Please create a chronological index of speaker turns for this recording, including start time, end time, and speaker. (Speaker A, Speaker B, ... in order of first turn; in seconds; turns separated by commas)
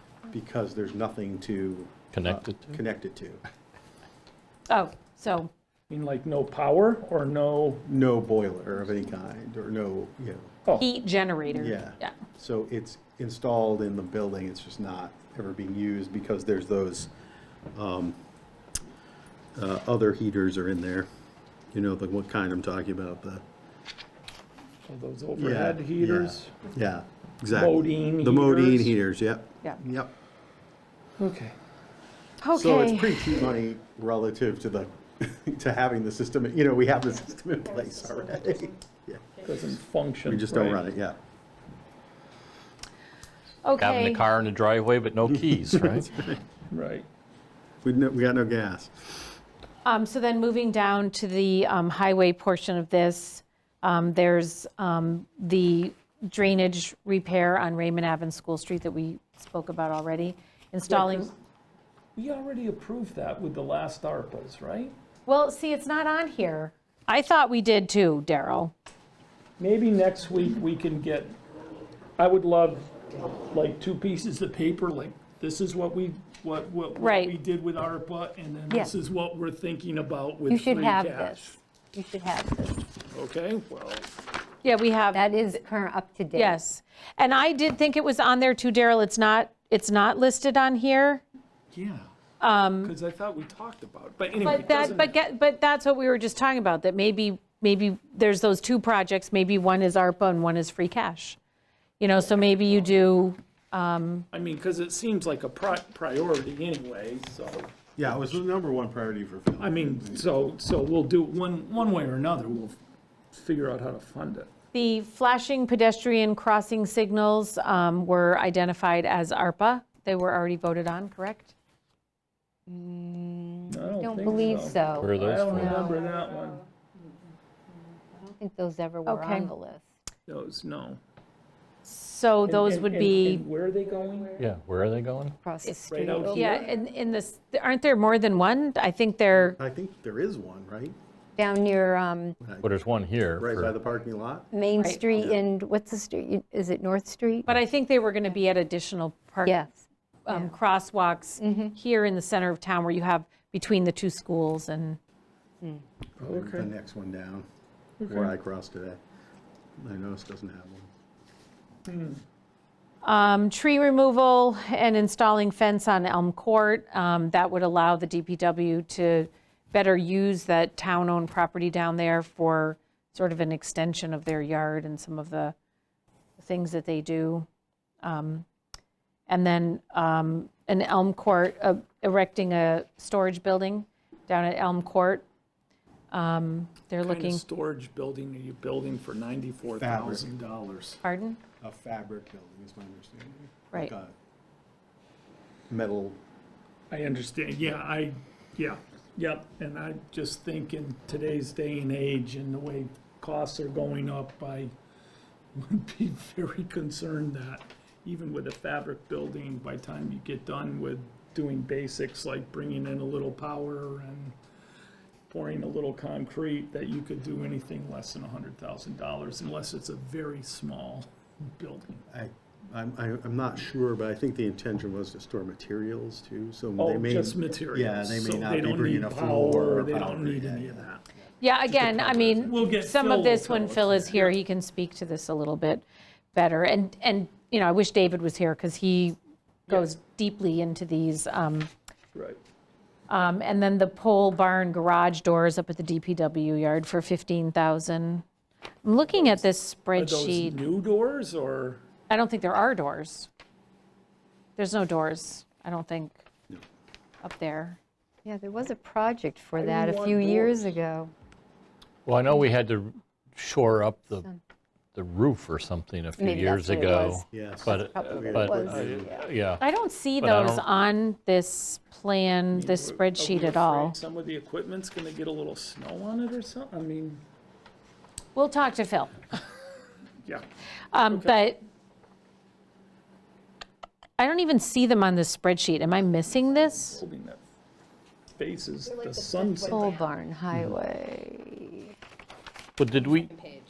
Speaker A: 0.3-3.4, Speaker B: 2.1-2.8, Speaker C: 4.7-5.5, Speaker D: 5.9-7.8, Speaker A: 7.9-10.6, Speaker C: 10.8-12.1, Speaker A: 11.5-17.1, Speaker A: 17.7-18.2, Speaker A: 19.6-21.1, Speaker A: 21.7-23.4, Speaker D: 24.9-26.6, Speaker A: 25.4-30.1, Speaker D: 27.5-29.0, Speaker D: 31.2-31.6, Speaker C: 32.4-33.5, Speaker A: 32.5-39.2, Speaker D: 39.4-40.9, Speaker A: 40.2-41.2, Speaker C: 43.6-44.2, Speaker B: 43.8-46.1, Speaker A: 45.7-46.4, Speaker D: 46.7-47.1, Speaker A: 47.8-49.3, Speaker C: 49.9-61.3, Speaker D: 60.9-61.3, Speaker D: 62.2-65.0, Speaker C: 65.3-68.7, Speaker D: 69.6-71.4, Speaker D: 72.2-73.0, Speaker D: 73.5-81.6, Speaker C: 77.0-77.3, Speaker E: 80.5-82.9, Speaker D: 83.1-84.1, Speaker C: 84.6-85.6, Speaker E: 85.1-86.6, Speaker C: 86.3-91.2, Speaker D: 91.7-92.1, Speaker C: 92.4-92.9, Speaker D: 92.8-95.2, Speaker C: 94.4-101.4, Speaker C: 102.0-104.3, Speaker D: 104.3-107.7, Speaker A: 108.0-110.3, Speaker D: 109.6-112.8, Speaker D: 113.3-114.5, Speaker C: 114.7-121.5, Speaker E: 122.7-126.0, Speaker D: 123.7-126.6, Speaker B: 124.8-125.9, Speaker E: 128.1-129.8, Speaker C: 129.1-129.5, Speaker D: 130.3-131.0, Speaker C: 131.8-133.5, Speaker D: 132.5-134.4, Speaker B: 134.4-135.4, Speaker E: 135.4-136.6, Speaker C: 135.7-139.6, Speaker D: 135.9-136.7, Speaker A: 139.4-141.0, Speaker E: 141.4-142.4, Speaker A: 142.4-142.7, Speaker B: 142.6-143.7, Speaker A: 143.4-144.5, Speaker E: 144.5-147.5, Speaker C: 144.8-145.1, Speaker A: 145.2-145.4, Speaker C: 147.5-149.6, Speaker E: 149.5-150.6, Speaker C: 150.2-155.0, Speaker E: 151.4-151.8, Speaker D: 156.2-156.7, Speaker A: 156.3-157.4, Speaker D: 158.0-158.3, Speaker A: 158.1-159.0, Speaker A: 159.8-160.9, Speaker D: 161.9-162.2, Speaker C: 163.0-175.6, Speaker C: 176.4-177.5, Speaker C: 178.0-178.5, Speaker C: 179.3-185.3, Speaker C: 186.1-187.4, Speaker D: 187.0-191.0, Speaker A: 189.8-190.2, Speaker C: 191.0-191.4, Speaker A: 191.6-194.2, Speaker A: 195.7-196.2, Speaker D: 196.9-204.7, Speaker D: 205.6-214.3, Speaker D: 215.3-222.0, Speaker A: 222.1-231.2, Speaker D: 226.8-231.0, Speaker C: 231.4-241.7, Speaker D: 231.7-234.4, Speaker A: 231.9-232.4, Speaker D: 242.1-242.4, Speaker C: 243.1-248.2, Speaker C: 248.8-250.6, Speaker D: 249.1-249.4, Speaker D: 250.0-251.8, Speaker C: 252.1-253.3, Speaker C: 254.6-256.3, Speaker C: 257.2-257.8, Speaker E: 258.2-261.1, Speaker D: 259.6-260.7, Speaker B: 262.1-264.3, Speaker B: 264.9-269.6, Speaker E: 266.2-269.3, Speaker A: 267.3-269.1, Speaker D: 268.0-268.3, Speaker C: 269.6-274.0, Speaker B: 270.2-270.6, Speaker D: 272.5-277.2, Speaker C: 278.4-279.4, Speaker C: 280.9-281.6, Speaker D: 281.1-281.4, Speaker C: 284.2-287.0, Speaker D: 286.3-287.4, Speaker D: 288.3-290.1, Speaker E: 289.7-291.9, Speaker B: 292.8-293.3